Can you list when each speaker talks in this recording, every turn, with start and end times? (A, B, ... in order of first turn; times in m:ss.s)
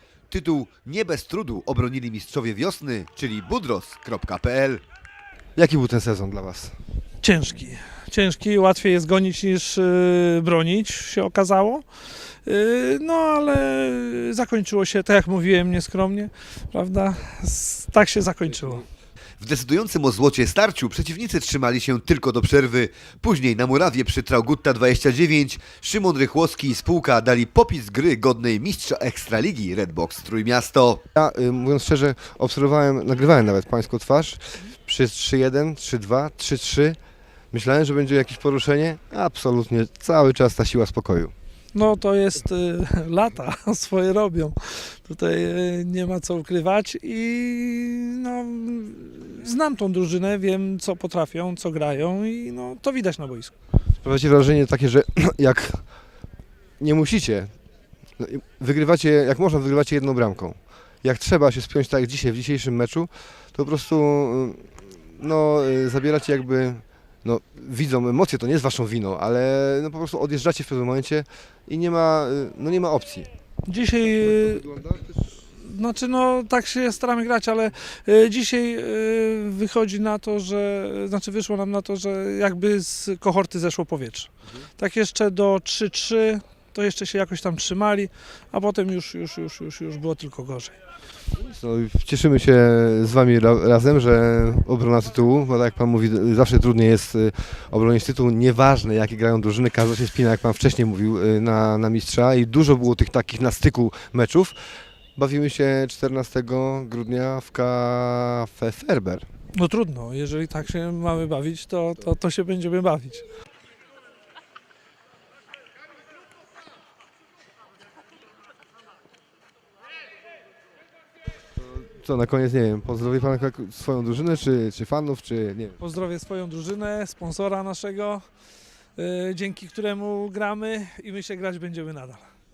0:00.3-0:04.8 A
0:05.6-0:06.7 B
0:07.2-0:11.8 C
0:12.4-0:18.8 C
0:19.4-0:31.0 A
0:31.2-0:37.0 B
0:37.5-0:41.3 B
0:41.7-0:53.5 C
0:54.0-0:55.9 B
0:56.8-0:57.5 B
0:58.2-1:13.3 B
1:13.6-1:14.6 C
1:14.0-1:15.3 B
1:15.4-1:30.8 C
1:31.3-1:49.2 B
1:49.5-1:53.2 C
2:01.6-2:05.8 B
2:05.8-2:08.3 C
2:09.0-2:12.3 C